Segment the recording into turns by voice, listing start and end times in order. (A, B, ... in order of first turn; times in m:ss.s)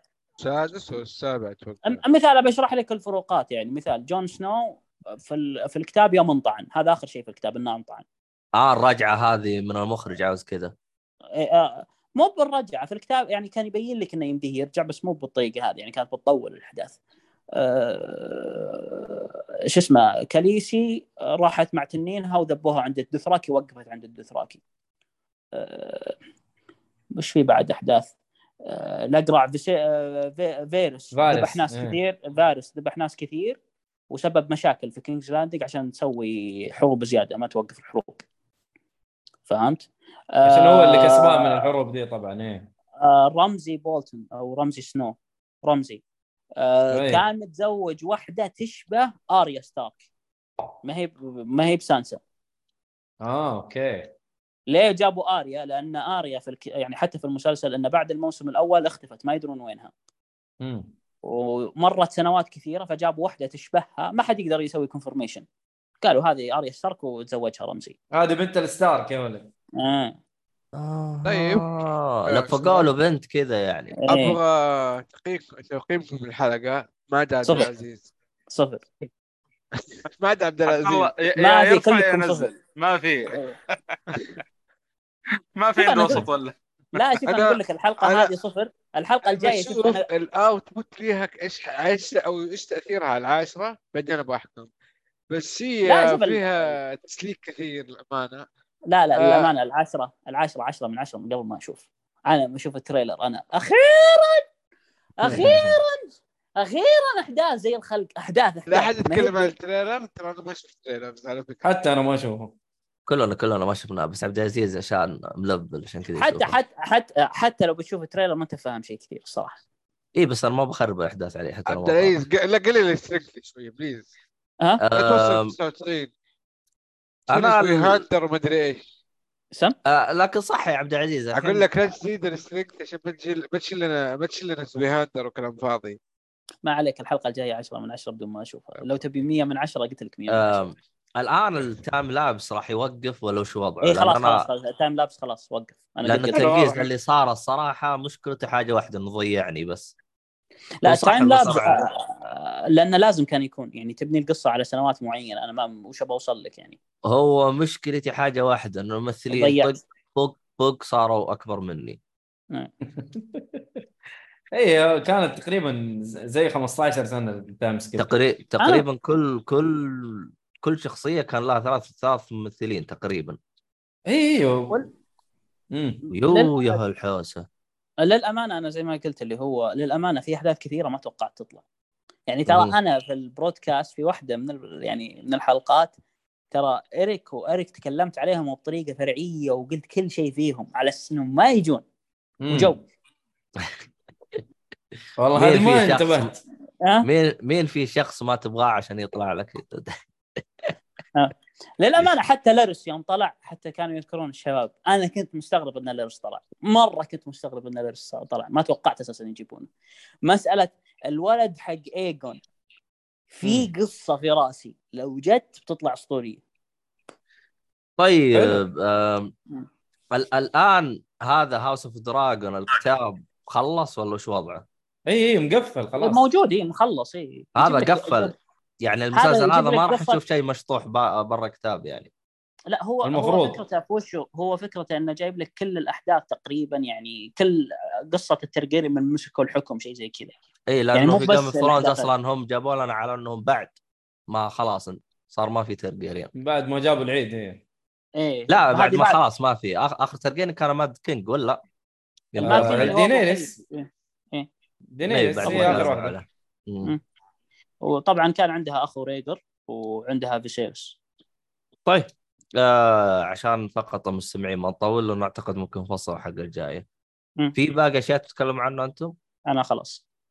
0:00.4-0:02.0 A
0:01.8-0:08.0 B
0:08.6-0:10.7 C
0:11.4-0:17.0 B
0:17.6-0:24.6 B
0:25.5-0:26.1 B
0:27.2-0:28.1 B
0:28.6-0:33.6 B
0:31.1-0:32.0 D
0:34.1-0:38.2 B
0:39.5-0:41.7 B
0:40.4-0:42.7 D
0:43.0-0:46.0 B
0:46.6-0:50.0 B
0:46.9-0:47.2 D
0:50.8-0:52.2 B
0:53.2-0:54.1 D
0:54.7-0:59.9 B
1:00.6-1:00.9 D
1:01.2-1:05.4 B
1:06.0-1:07.9 B
1:08.1-1:09.5 D
1:09.8-1:10.2 B
1:10.7-1:14.0 C
1:11.2-1:11.7 A
1:12.3-1:12.9 A
1:14.0-1:14.4 B
1:14.1-1:18.1 A
1:17.4-1:17.7 B
1:18.5-1:18.9 B
1:19.8-1:21.1 A
1:20.6-1:23.4 E
1:21.4-1:22.5 B
1:25.6-1:26.5 E
1:25.8-1:26.2 B
1:26.9-1:30.0 B
1:27.3-1:28.3 A
1:29.2-1:34.7 A
1:35.3-1:38.4 A
1:35.8-1:36.8 B
1:38.9-1:44.4 B
1:39.1-1:39.5 A
1:45.2-1:49.5 B
1:45.3-1:45.8 D
1:48.7-1:51.6 A
1:51.6-1:52.5 D
1:53.1-1:56.5 C
1:56.1-1:59.6 B
2:00.1-2:02.1 C
2:01.7-2:04.1 A
2:04.8-2:05.5 C
2:04.9-2:06.1 A
2:07.3-2:08.0 C
2:07.3-2:08.9 A
2:09.8-2:11.6 C
2:11.3-2:16.0 A
2:16.6-2:20.6 B
2:20.3-2:24.5 C
2:23.8-2:26.7 B
2:26.0-2:29.9 C
2:26.3-2:26.7 A
2:30.8-2:36.8 B
2:30.8-2:31.8 C
2:37.0-2:42.0 C
2:39.3-2:39.8 B
2:43.0-2:43.6 D
2:44.5-2:48.1 D
2:48.0-2:53.4 C
2:48.6-2:48.8 B
2:54.1-2:54.8 D
2:55.7-2:56.0 D
2:56.1-2:56.7 B
2:56.1-2:57.4 C
2:58.0-3:01.6 B
3:02.3-3:05.9 B
3:02.5-3:02.7 C
3:06.5-3:11.8 B
3:12.4-3:12.7 D
3:12.5-3:12.8 B
3:15.2-3:16.4 D
3:15.3-3:16.4 C
3:17.0-3:19.9 C
3:21.1-3:29.7 B
3:30.3-3:32.4 B
3:33.3-3:36.4 B
3:38.0-3:39.3 C
3:38.3-3:38.6 D
3:40.1-3:44.6 C
3:45.1-3:46.2 D
3:46.0-3:48.3 B
3:47.6-3:52.1 C
3:49.1-3:50.2 B
3:52.7-4:00.3 B
3:53.0-3:53.6 D
4:00.7-4:03.8 C
4:00.9-4:02.1 B
4:04.3-4:06.3 C
4:06.4-4:07.6 D
4:08.2-4:09.2 B
4:08.5-4:11.6 C
4:12.3-4:13.0 C
4:12.4-4:14.5 B
4:12.4-4:13.6 D
4:15.0-4:16.1 D
4:15.1-4:16.9 C
4:15.4-4:15.9 B
4:17.8-4:20.9 B
4:21.8-4:26.8 C
4:27.5-4:29.1 C
4:29.5-4:30.0 B